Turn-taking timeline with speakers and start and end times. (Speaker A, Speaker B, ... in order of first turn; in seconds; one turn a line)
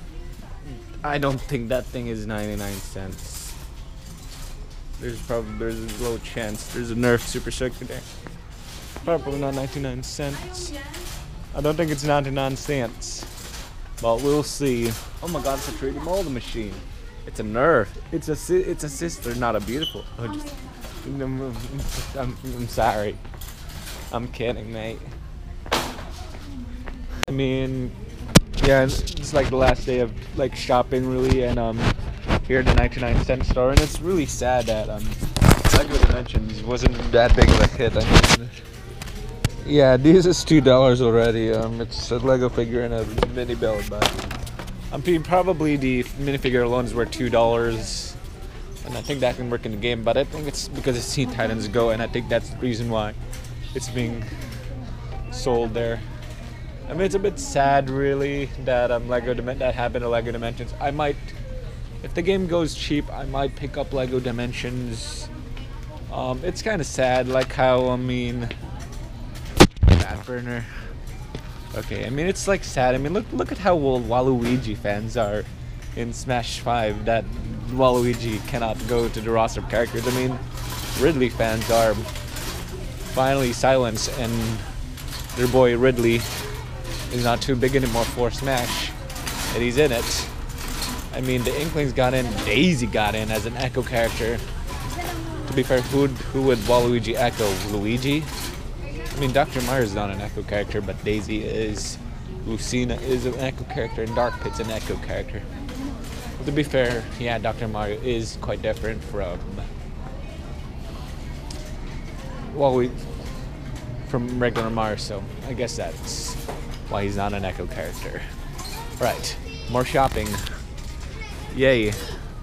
Speaker A: 0.6-3.5
Speaker A: 5.0-8.1
Speaker A: 9.0-10.8
Speaker A: 11.5-13.3
Speaker A: 14.0-20.5
Speaker A: 21.0-23.2
Speaker A: 24.1-25.1
Speaker A: 27.2-27.9
Speaker A: 28.6-38.5
Speaker A: 39.6-44.3
Speaker A: 44.9-48.2
Speaker A: 48.8-53.2
Speaker A: 53.7-54.4
Speaker A: 55.3-56.1
Speaker A: 56.9-61.3
Speaker A: 62.0-65.3
Speaker A: 66.1-68.5
Speaker A: 69.8-70.9
Speaker A: 71.7-82.1
Speaker A: 83.1-84.7
Speaker A: 85.3-86.3
Speaker A: 87.1-89.0
Speaker A: 89.5-90.3
Speaker A: 91.1-94.4
Speaker A: 95.4-98.3
Speaker A: 99.1-105.5
Speaker A: 106.4-109.7
Speaker A: 112.5-113.1
Speaker A: 114.0-118.3
Speaker A: 119.0-120.6
Speaker A: 121.5-122.2